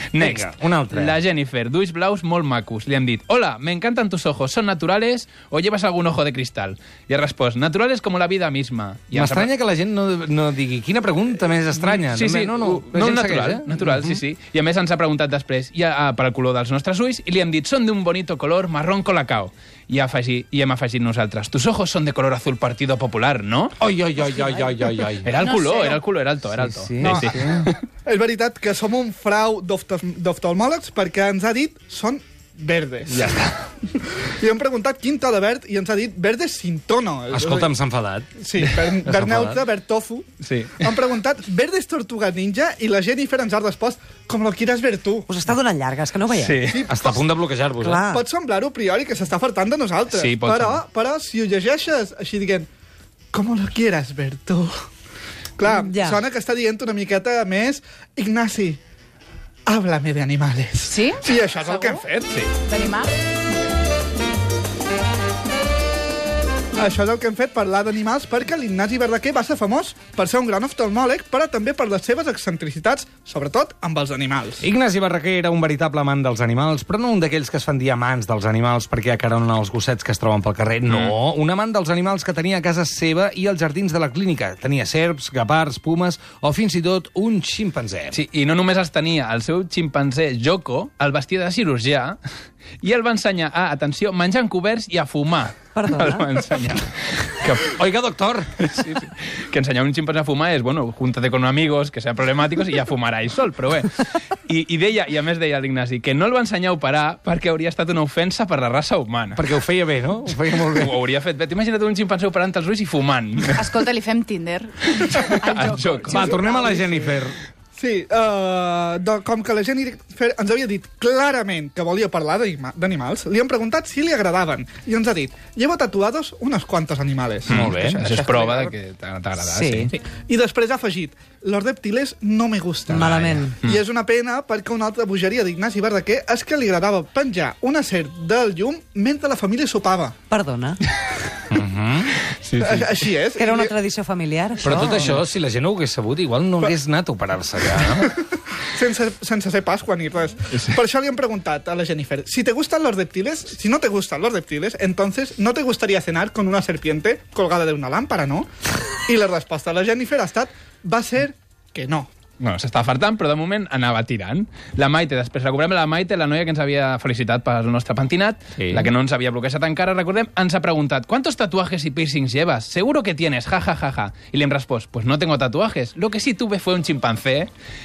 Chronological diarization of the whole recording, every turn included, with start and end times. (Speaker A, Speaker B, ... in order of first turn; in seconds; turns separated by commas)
Speaker A: 0.1-9.5, Speaker B: 0.2-1.2, Speaker B: 9.1-14.2, Speaker A: 11.8-23.8, Speaker B: 23.8-25.3, Speaker C: 24.2-24.7, Speaker A: 25.2-27.8, Speaker D: 25.5-26.0, Speaker C: 27.0-27.7, Speaker E: 27.0-27.5, Speaker E: 28.0-33.4, Speaker A: 33.1-33.6, Speaker E: 34.0-37.7, Speaker B: 37.3-38.3, Speaker E: 38.4-40.3, Speaker B: 39.0-39.6, Speaker A: 40.4-41.0, Speaker E: 40.8-45.3, Speaker C: 45.3-46.6, Speaker A: 46.4-46.9, Speaker E: 46.6-47.3, Speaker B: 46.9-48.0, Speaker C: 47.8-48.2, Speaker E: 48.1-52.7, Speaker A: 50.1-50.8, Speaker E: 53.3-54.7, Speaker E: 55.6-58.8, Speaker C: 55.8-56.2, Speaker E: 59.7-62.1, Speaker D: 60.9-62.0, Speaker A: 62.1-62.5, Speaker D: 62.6-63.1, Speaker E: 66.8-74.7, Speaker B: 74.6-88.2, Speaker A: 80.9-81.1, Speaker A: 88.1-92.2, Speaker A: 92.8-97.8, Speaker C: 95.8-96.2, Speaker B: 97.6-98.5, Speaker A: 98.6-109.4, Speaker B: 109.4-111.0, Speaker A: 110.7-113.8, Speaker D: 113.5-117.2, Speaker A: 115.1-116.2, Speaker B: 116.1-117.4, Speaker E: 117.8-128.7, Speaker B: 127.5-128.0, Speaker A: 127.5-129.9, Speaker C: 129.4-129.9, Speaker E: 129.9-140.2, Speaker C: 132.9-133.6, Speaker A: 132.9-133.8, Speaker C: 140.3-140.8, Speaker B: 141.5-142.2, Speaker A: 142.4-143.1, Speaker E: 142.6-143.8, Speaker C: 143.3-145.0, Speaker B: 144.6-148.1, Speaker A: 145.0-145.2, Speaker E: 148.0-158.5, Speaker E: 159.1-162.1, Speaker A: 162.4-177.5, Speaker B: 168.6-168.9